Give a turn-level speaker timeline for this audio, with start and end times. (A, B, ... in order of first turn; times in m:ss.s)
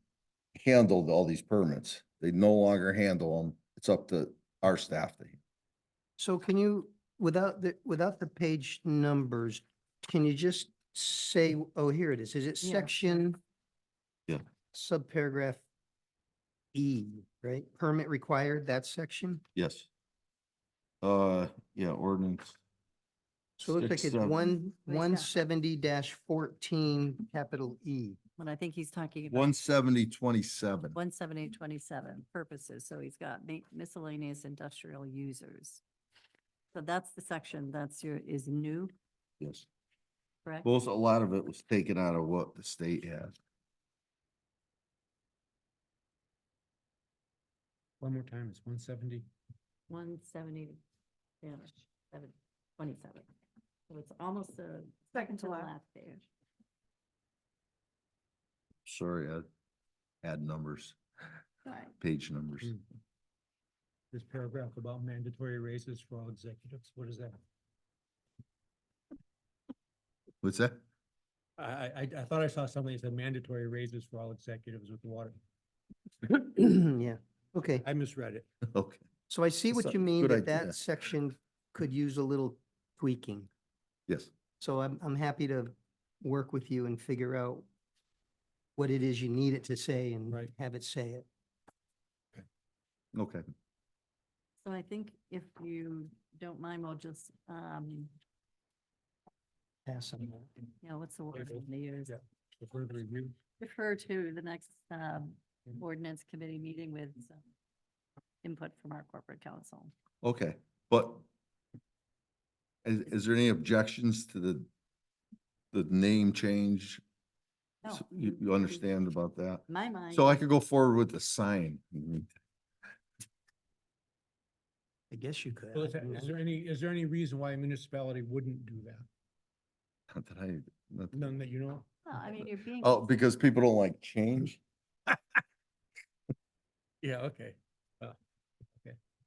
0:00.5-0:05.4 A
0:06.2-0:13.4 B
0:12.6-0:13.2 C
0:14.7-0:15.6 B
0:16.7-0:19.4 B
0:19.6-0:19.9 A
0:21.0-0:22.6 A
0:23.6-0:28.2 B
0:23.6-0:24.5 A
0:24.9-0:25.3 C
0:28.4-0:29.5 C
0:29.3-0:31.0 A
0:30.9-0:35.8 C
0:36.7-0:38.9 C
0:39.4-0:39.7 A
0:40.6-0:43.3 A
0:48.0-0:49.3 D
0:49.9-0:50.8 C
0:51.4-0:53.3 C
0:53.9-0:56.2 C
0:58.8-0:59.4 A
1:00.2-1:01.0 A
1:01.6-1:01.9 C
1:02.0-1:02.8 A
1:04.1-1:07.4 D
1:10.4-1:10.8 A
1:11.6-1:15.4 D
1:16.2-1:17.9 B
1:17.8-1:18.5 D
1:18.7-1:19.0 A
1:19.3-1:23.5 B
1:19.7-1:20.8 A
1:24.6-1:27.7 B
1:28.8-1:31.2 B
1:33.1-1:33.4 A
1:34.6-1:38.1 C
1:39.8-1:40.5 B
1:40.8-1:42.1 C
1:41.3-1:43.4 D
1:43.6-1:47.4 C
1:48.4-1:49.9 C
1:50.2-1:51.2 A
1:52.8-1:54.7 A
1:55.7-1:57.0 A
1:57.8-1:58.8 C
1:57.9-2:02.3 A
1:59.7-2:00.4 C
2:05.1-2:06.3 B
2:05.7-2:09.0 D
2:10.1-2:11.3 A
2:11.1-2:11.9 D
2:12.0-2:13.1 C
2:12.2-2:14.6 A
2:17.0-2:18.2 D